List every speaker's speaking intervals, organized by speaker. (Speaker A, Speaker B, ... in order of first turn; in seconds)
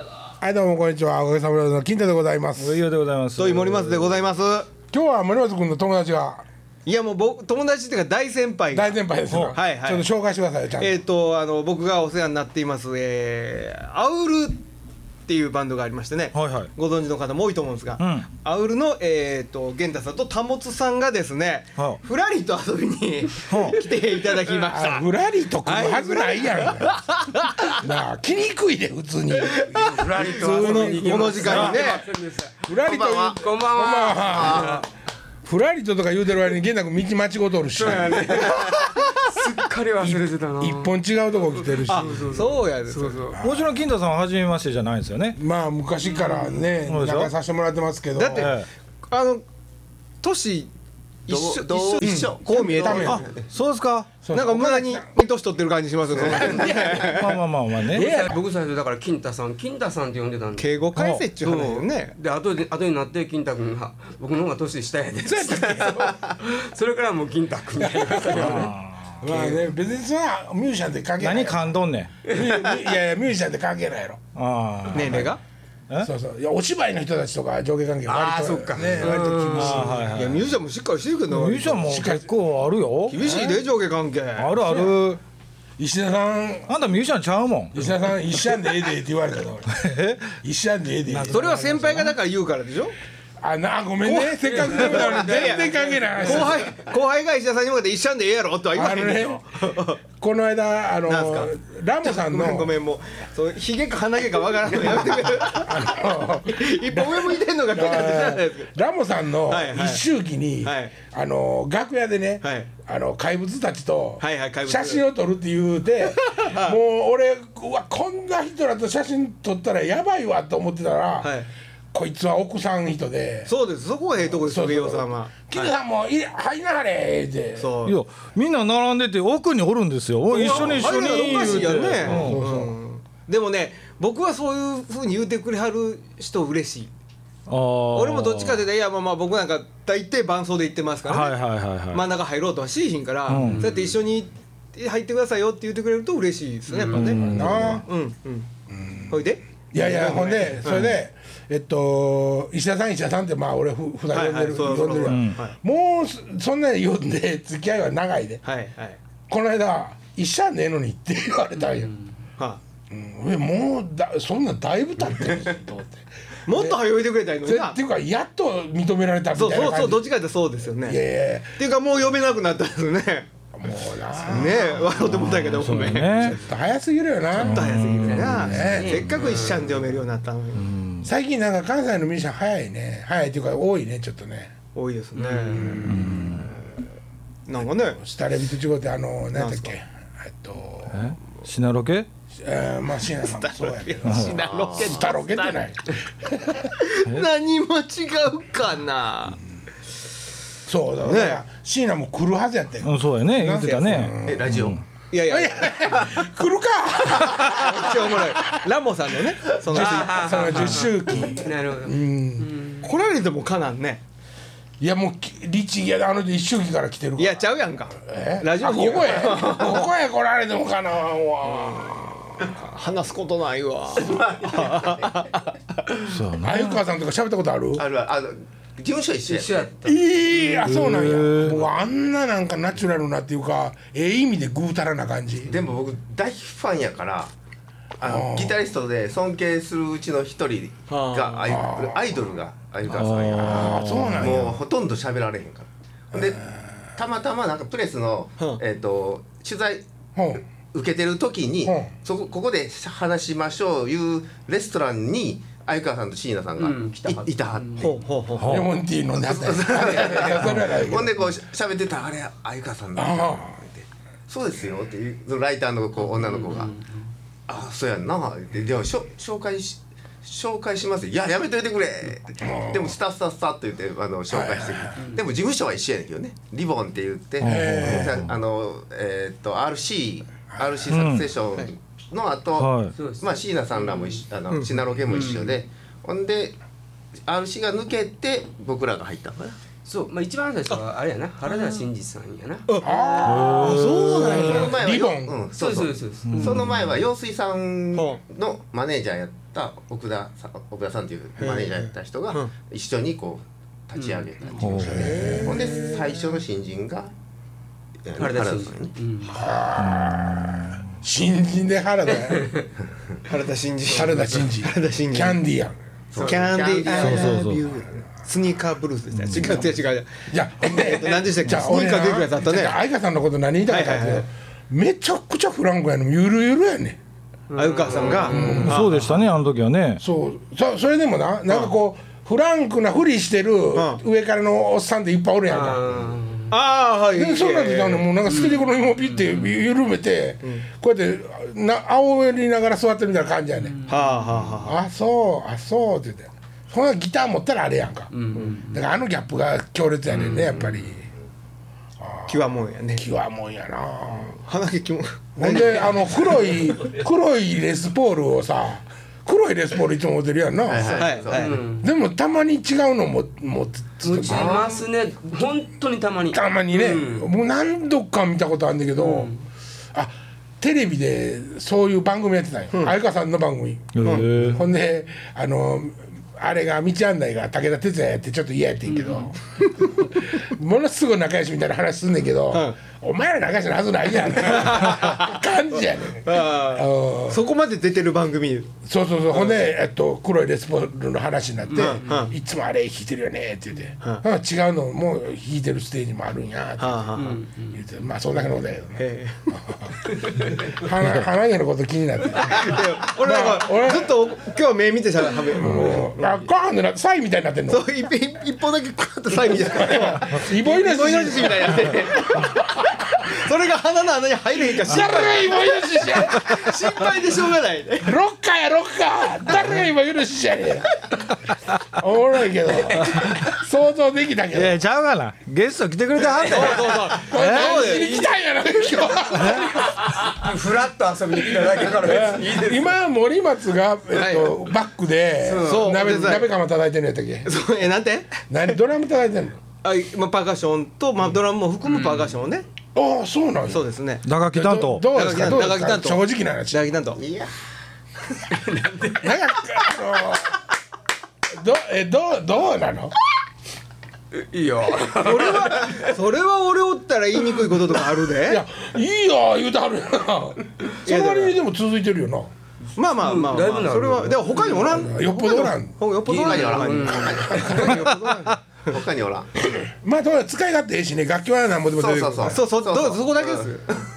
Speaker A: 0.4-2.8, 4.9-6.4, 8.7-11.0, 24.6-32.0, 32.6-34.9, 35.4-38.8, 40.0-42.2, 43.3-43.7, 45.4-48.5, 52.0-53.3, 54.2-55.1, 56.1-57.1, 57.8-58.4, 65.2-66.2, 67.8-71.7, 72.3-74.2, 76.0-80.0, 81.8-82.3, 83.2-83.5, 85.8-86.7, 87.7-91.4, 93.4-96.7, 98.7-99.7, 100.2-102.8, 105.5-121.3, 121.9-123.5, 124.3-127.7, 132.1-132.7, 147.2-147.8, 148.7-149.2, 149.7-158.4, 159.3-161.9, 162.9-166.8, 167.4-170.1, 170.8-171.6, 173.5-174.8, 176.2-177.6, 178.4-179.2, 181.0-184.5, 185.6-186.5, 188.0-191.1, 192.3-196.8, 200.7-204.6, 205.2-208.6, 209.5-212.5, 214.8-217.4, 217.9-222.2, 226.4-227.8, 229.8-235.5, 238.0-238.6, 241.4-242.1, 243.4-244.6, 246.1-246.6, 250.2-250.4, 251.6-251.9, 258.5-261.1, 262.9-263.6, 272.4-272.9, 274.3-275.0, 277.4-278.3, 280.5-280.8, 292.8-295.3, 304.8-306.0, 309.3-312.5, 313.9-316.4, 319.3-319.7, 320.3-327.0, 328.2-328.9, 330.0-335.9, 337.1-343.7, 344.6-348.1, 348.6-351.0, 352.0-354.4, 355.4-361.1, 361.8-364.6, 366.3-369.3, 369.9-387.4, 388.8-397.2, 397.7-404.1, 405.5-407.8, 409.5-413.4, 414.8-416.9, 418.0-421.0, 421.8-424.8, 427.1-430.2, 431.9-437.5, 438.5-439.6, 442.9-443.9, 444.5-446.9, 449.2-450.6, 451.5-453.1, 458.4-462.5, 464.8-465.9, 469.7-472.6
Speaker B: 2.6-4.2, 16.3-16.7, 18.0-18.3, 23.5-23.9, 43.4-45.4, 46.9-47.3, 48.4-48.7, 53.5-54.1, 57.0-58.1, 60.9-61.3, 68.2-69.2, 71.2-72.1, 74.3-75.3, 79.5-80.5, 81.3-83.6, 84.4-85.2, 86.7-87.9, 89.7-90.3, 127.8-132.4, 137.5-138.6, 141.1-142.1, 143.3-143.6, 146.9-147.8, 155.1-155.4, 174.9-176.4, 177.4-179.0, 180.6-181.1, 185.9-186.5, 190.9-192.1, 194.0-194.4, 202.8-204.8, 226.0-226.8, 230.6-231.6, 242.8-244.4, 258.4-258.7, 277.4-278.2, 280.9-281.2, 282.6-282.9, 293.2-294.4, 296.3-296.8, 304.6-305.4, 316.9-317.7, 319.2-319.5, 328.4-330.0, 373.9-374.6, 424.5-427.8, 444.2-445.5
Speaker C: 3.4-4.7, 6.8-9.0, 9.5-10.1, 10.8-14.6, 15.3-25.1, 25.6-27.8, 29.4-32.0, 38.2-38.7, 41.9-43.3, 48.1-49.4, 50.2-50.7, 51.3-53.4, 54.0-57.3, 60.5-62.1, 74.9-75.4, 79.5-81.9, 83.1-85.0, 91.3-92.9, 94.0-100.0, 101.0-101.5, 102.0-108.7, 109.5-110.0, 110.6-110.9, 112.4-112.7, 114.2-115.0, 116.0-116.8, 121.2-121.5, 123.5-125.7, 127.5-128.0, 130.3-136.9, 137.9-148.5, 149.1-151.0, 154.1-155.6, 158.4-159.0, 166.5-167.8, 169.3-171.0, 171.6-173.3, 174.2-176.4, 177.3-180.8, 184.7-185.8, 187.4-188.0, 189.3-189.7, 193.2-195.1, 196.8-199.4, 201.0-201.4, 203.5-204.1, 205.1-206.0, 207.2-210.4, 212.8-214.0, 217.2-219.8, 221.4-225.6, 240.9-241.5, 257.8-258.5, 284.5-284.8, 291.5-291.8, 292.7-294.7, 297.9-298.2, 301.4-301.7, 305.0-305.5, 313.3-315.4, 316.2-317.6, 318.2-322.8, 323.7-324.2, 327.5-329.2, 333.7-334.0, 336.5-338.1, 343.9-344.8, 352.3-353.0, 354.2-356.6, 361.0-361.6, 374.0-374.3, 382.5-382.8, 384.4-385.4, 386.2-388.7, 391.7-392.3, 396.8-397.4, 398.9-399.5, 402.4-406.5, 407.7-412.6, 413.2-418.2, 426.4-428.3, 434.1-434.6, 435.6-436.5, 437.4-438.5, 439.8-442.6, 443.7-444.2, 445.1-447.2, 455.1-458.6, 461.0-461.6, 462.9-468.9, 472.4-473.9
Speaker D: 29.7-32.7, 33.4-34.8, 37.7-41.0, 41.5-43.4, 46.0-46.6, 57.9-60.8, 61.4-68.7, 69.2-69.6, 78.0-80.0, 91.1-92.1, 94.5-96.8, 143.4-143.9, 146.7-147.2, 161.6-161.9, 178.1-180.0, 185.2-185.8, 209.7-212.9, 229.3-230.9, 256.6-258.0, 266.0-267.1, 275.0-275.3, 282.9-284.2, 285.1-285.6, 289.8-292.6, 294.4-294.8, 295.5-296.8, 303.9-304.6, 308.1-309.4, 312.2-312.7, 327.5-328.6, 335.5-336.5, 338.2-339.6, 343.6-344.3, 348.1-348.8, 350.1-350.8, 361.3-361.9, 364.0-367.3, 368.9-369.4, 378.9-379.3, 391.7-392.3, 397.1-397.8, 422.9-423.3, 429.7-432.9, 435.4-436.1, 441.9-442.3, 448.5-449.9, 454.3-456.1, 463.1-465.1, 466.2-468.1
Speaker E: 32.9-34.8, 51.3-53.5, 56.2-57.0, 194.3-195.2, 204.2-204.8, 205.8-206.2, 223.9-225.2, 227.8-229.8, 235.5-237.3, 238.0-246.4, 246.9-249.9, 250.7-258.0, 259.2-266.7, 267.5-286.6, 287.3-289.6, 294.3-307.1, 308.1-308.9, 316.1-318.1, 335.9-336.2, 360.6-361.6, 364.2-364.8, 447.1-447.5, 466.2-468.2, 468.8-469.5, 471.9-473.7